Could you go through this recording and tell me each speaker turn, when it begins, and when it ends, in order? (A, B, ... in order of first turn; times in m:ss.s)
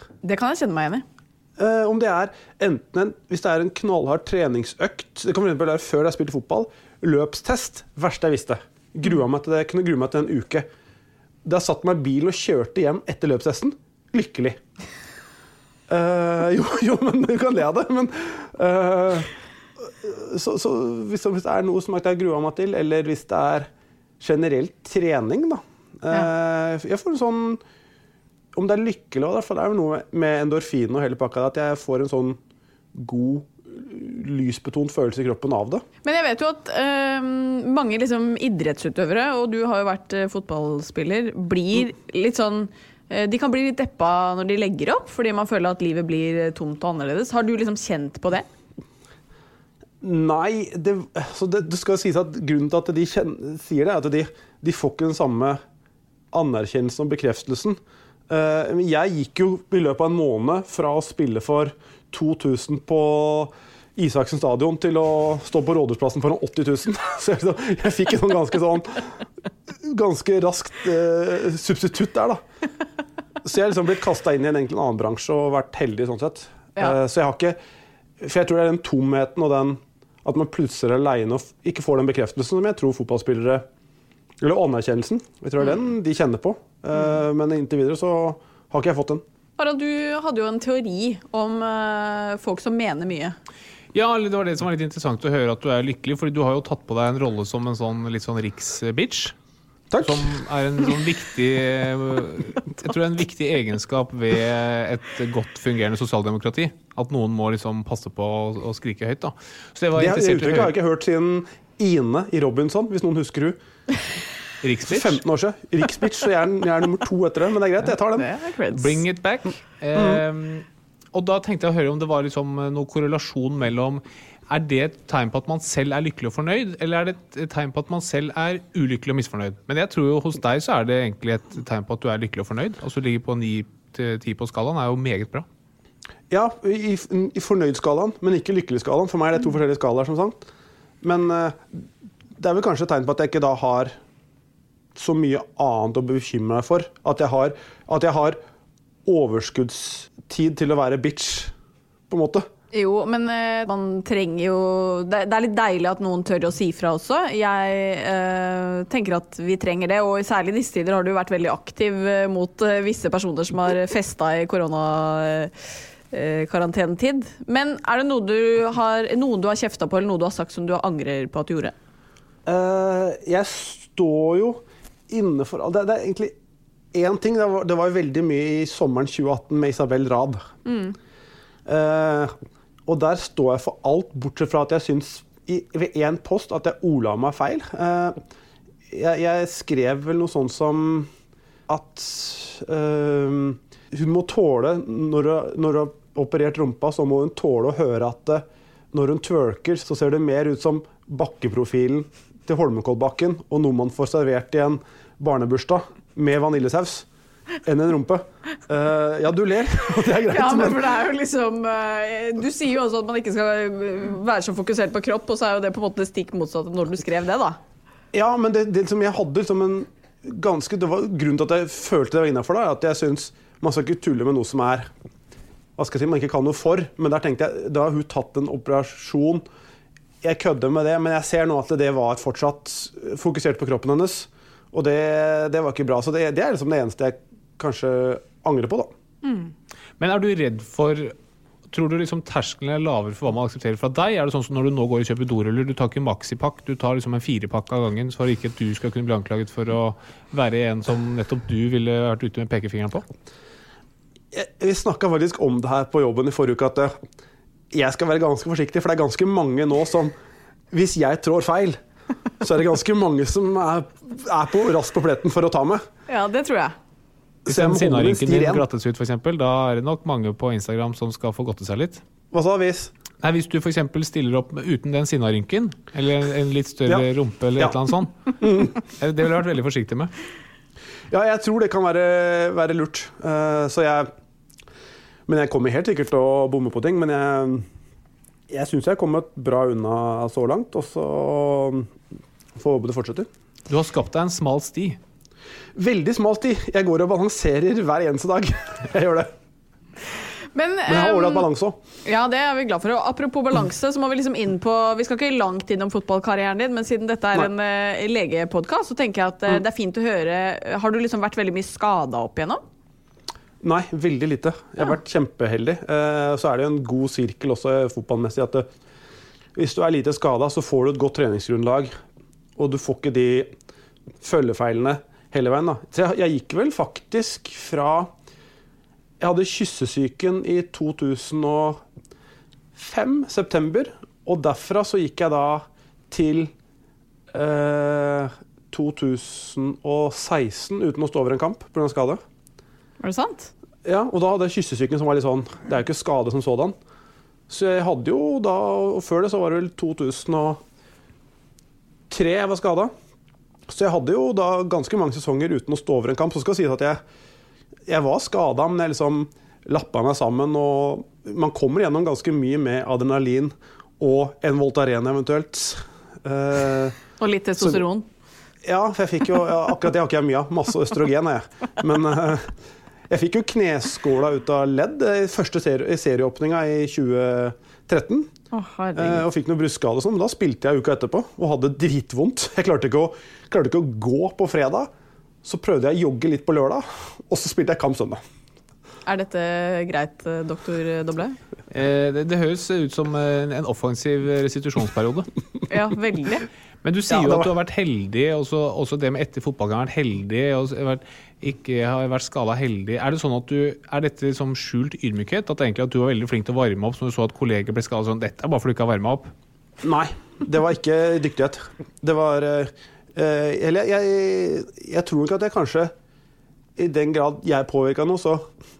0:00.2-0:01.0 A
0:01.6-0:10.7 B
0:11.4-0:14.6 B
0:15.9-0:19.3 B
0:19.8-0:23.7 B
0:24.2-0:27.6 B
0:28.5-0:32.4 B
0:32.9-0:35.8 B
0:36.0-0:48.4 A
0:50.0-0:55.6 B
0:56.3-1:09.1 B
1:09.8-1:12.4 B
1:13.4-1:17.6 B
1:18.2-1:23.6 B
1:24.4-1:29.2 B
1:29.6-1:33.4 A
1:33.9-1:39.3 C
1:39.9-1:40.4 B
1:40.0-1:50.8 C
1:50.0-1:53.6 B
1:54.6-1:55.2 C
1:54.8-1:58.3 B
1:58.1-1:59.0 A
1:58.7-2:15.5 C
1:59.9-2:00.2 B
2:16.3-2:20.4 B
2:21.0-2:21.8 B
2:22.4-2:24.0 B
2:24.9-2:28.4 B
2:29.0-2:31.5 B
2:32.1-2:32.4 B
2:32.7-2:45.5 A
2:46.1-2:51.7 A
2:52.4-2:56.4 B
2:56.9-3:00.5 B
3:00.6-3:00.9 A
3:01.6-3:02.3 B
3:02.8-3:08.2 B
3:08.9-3:11.1 B
3:11.7-3:27.0 B
3:27.6-3:30.9 B
3:30.2-3:37.6 A
3:38.1-3:44.9 B
3:45.8-3:49.4 B
3:50.2-3:58.9 B
3:59.2-3:59.5 A
4:00.0-4:01.2 C
4:01.7-4:13.0 C
4:14.3-4:16.9 B
4:17.7-4:20.1 B
4:20.7-4:21.8 B
4:22.4-4:25.8 B
4:26.1-4:26.8 A
4:27.4-4:28.6 B
4:27.4-4:32.0 C
4:32.3-4:32.9 B
4:33.2-4:40.1 C
4:36.8-4:37.8 B
4:38.4-4:38.8 B
4:41.1-4:44.1 B
4:45.3-4:47.7 B
4:48.5-4:51.9 B
4:52.5-4:53.3 B
4:53.7-4:55.0 C
4:55.8-4:59.3 B
5:00.5-5:01.5 A
5:00.9-5:01.8 B
5:02.0-5:12.6 A
5:13.6-5:18.6 B
5:19.6-5:21.9 B
5:22.6-5:23.5 B
5:24.2-5:28.1 B
5:29.2-5:31.8 B
5:32.8-5:36.5 B
5:37.3-5:42.2 B
5:43.0-5:43.5 A
5:43.8-5:46.7 B
5:47.5-5:50.6 B
5:52.1-5:52.9 B
5:53.7-5:57.0 B
5:57.9-6:07.0 B
6:07.2-6:08.1 A
6:07.6-6:07.8 B
6:08.6-6:12.5 B
6:13.1-6:18.3 B
6:18.5-6:19.2 A
6:18.9-6:24.9 B
6:25.4-6:28.2 B
6:29.0-6:31.4 A
6:31.7-6:35.3 C
6:35.7-6:36.4 A
6:36.8-6:49.3 C
6:37.1-6:37.5 B
6:49.8-6:55.9 B
6:56.8-6:58.5 B